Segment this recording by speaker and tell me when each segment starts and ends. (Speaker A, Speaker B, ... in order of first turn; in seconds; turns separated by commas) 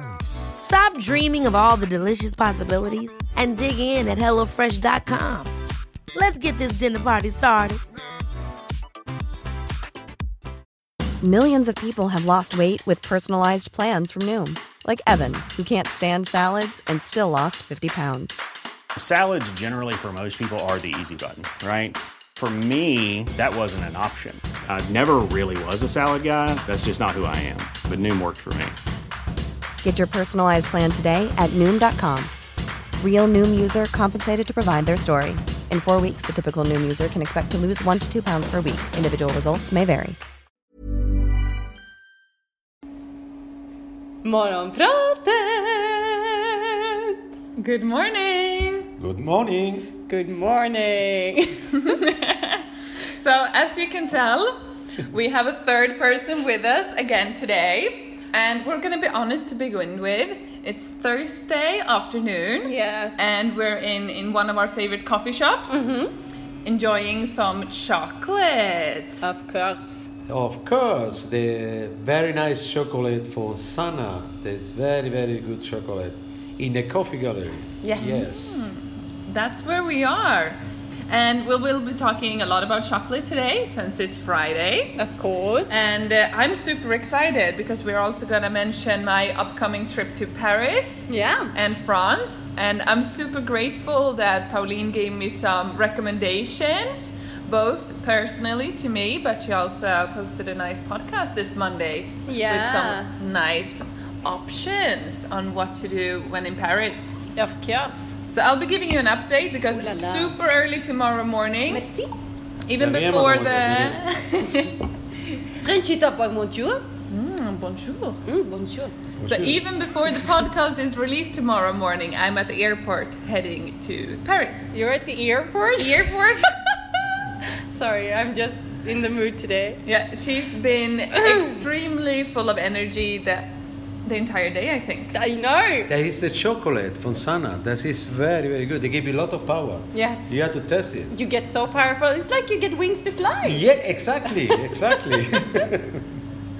Speaker A: 0.6-5.5, Speaker A: 6.1-7.8, Speaker B: 11.2-18.3, Speaker C: 18.9-28.8, Speaker B: 29.8-32.3, Speaker B: 33.0-40.2, Speaker D: 44.2-46.3, Speaker E: 47.6-48.9, Speaker F: 49.0-49.9, Speaker D: 50.0-51.6, Speaker E: 51.9-54.5, Speaker E: 55.1-65.8, Speaker D: 62.6-63.2, Speaker D: 65.7-66.1, Speaker E: 66.6-69.3, Speaker D: 69.2-70.1, Speaker F: 70.3-78.7, Speaker D: 77.8-78.3, Speaker E: 78.0-85.0, Speaker D: 85.0-85.8, Speaker E: 85.7-107.1, Speaker D: 91.1-91.5, Speaker D: 102.3-103.1, Speaker D: 107.3-108.2, Speaker E: 108.3-111.9, Speaker D: 109.7-110.3, Speaker D: 111.7-112.1, Speaker E: 112.7-114.8, Speaker F: 112.8-114.0, Speaker D: 115.6-116.8, Speaker E: 117.1-118.2, Speaker D: 118.2-118.9, Speaker F: 119.2-119.6, Speaker E: 119.2-124.7, Speaker D: 124.7-126.1, Speaker E: 125.8-126.5, Speaker D: 127.7-129.8, Speaker E: 129.8-133.5, Speaker E: 134.0-135.1, Speaker D: 135.1-135.9, Speaker F: 135.9-141.1, Speaker D: 139.9-140.3, Speaker D: 141.1-143.6, Speaker F: 143.4-146.0